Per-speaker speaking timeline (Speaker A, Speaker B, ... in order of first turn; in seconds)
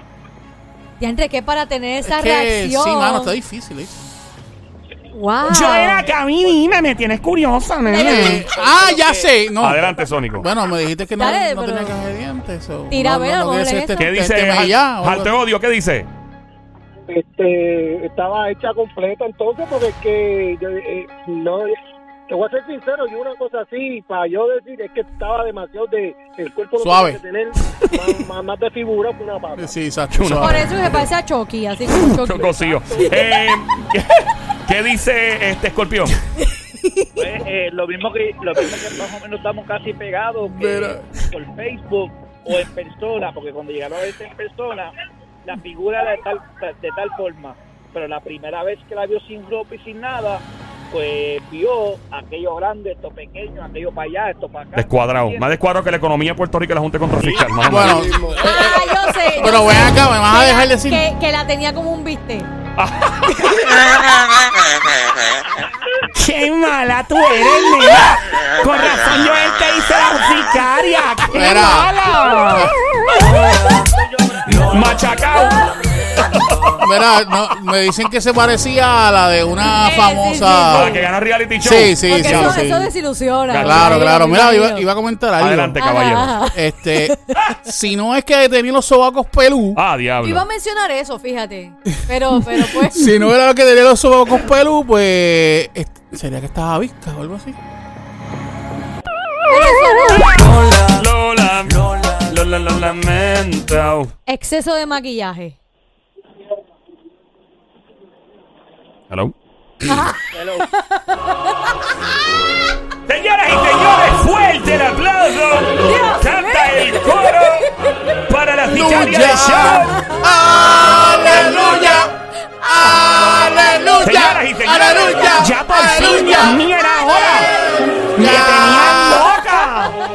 Speaker A: 1.0-3.3, 5.1-6.0, 7.9-8.4, 11.2-12.0, 12.9-14.1, 30.4-33.2, 58.4-62.5, 79.6-81.1, 82.0-84.9, 85.8-87.1, 90.2-93.2, 99.5-100.4, 104.3-105.6, 109.9-110.2, 110.8-111.5, 115.8-117.9, 121.3-121.9, 122.6-123.0, 123.7-124.0
Speaker B: 2.0-3.9, 8.0-15.4, 26.8-27.2, 29.6-30.8, 40.5-41.1, 57.6-61.0, 71.3-72.7, 76.8-81.0, 81.6-82.9, 83.6-85.8, 86.4-89.8, 92.3-97.6, 118.7-122.1, 122.6-129.3
Speaker C: 5.5-8.5, 66.1-72.7, 125.3-127.5, 128.2-130.0
Speaker D: 8.6-9.2, 37.2-44.9, 45.4-55.5, 110.3-110.7
Speaker E: 9.6-10.5, 14.0-16.1, 30.1-30.7, 31.9-36.2, 54.8-58.1, 62.8-63.7, 74.5-75.8, 80.7-82.6, 83.5-84.1, 85.4-86.5, 89.8-90.4, 100.9-104.1, 109.1-109.3, 113.1-117.7, 118.3-120.1, 124.0-125.4, 126.1-126.4
Speaker F: 17.1-21.8, 22.3-29.8